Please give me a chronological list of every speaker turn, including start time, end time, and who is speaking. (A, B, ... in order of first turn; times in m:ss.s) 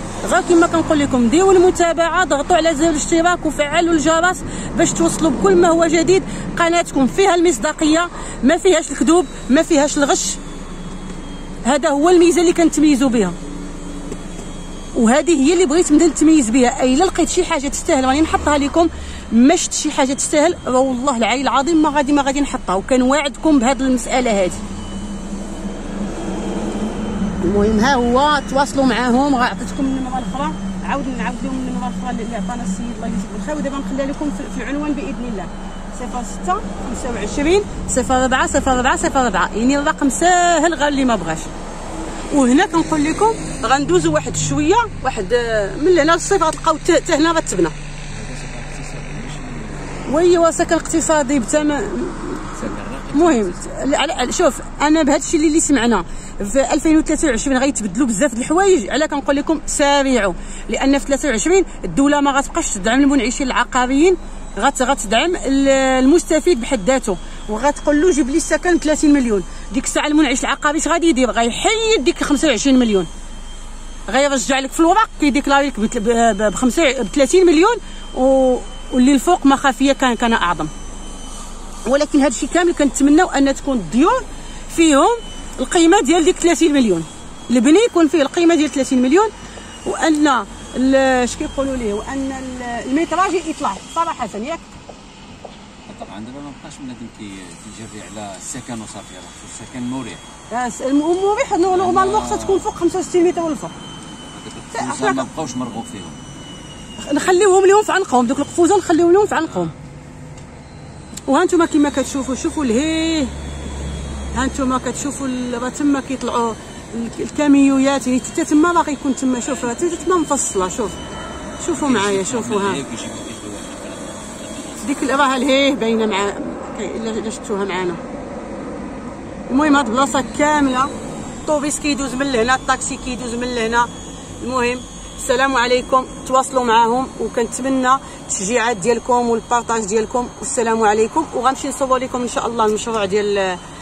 0:00.2-0:10.4 A
0:11.6-0:13.4 A
0:14.9-0:24.6 A
0:27.4-0:41.5 A
0:42.3-0:47.7 A
0:48.1-0:50.1 B
0:50.1-0:52.5 A
0:52.4-0:53.7 B
0:53.1-1:13.1 A
1:14.1-1:20.7 A
1:21.8-1:29.3 A
1:29.8-1:34.6 A
1:35.9-1:40.2 B
1:40.5-1:43.7 A
1:41.7-1:42.6 B
1:44.2-1:46.2 B
1:44.7-1:45.2 A
1:47.0-1:49.7 A
1:51.3-1:53.3 A
1:54.3-2:01.0 A
2:01.6-2:02.8 A
2:01.7-2:05.2 B
2:04.8-2:08.0 A
2:09.5-2:10.9 A
2:11.4-2:13.9 A
2:14.4-2:23.6 A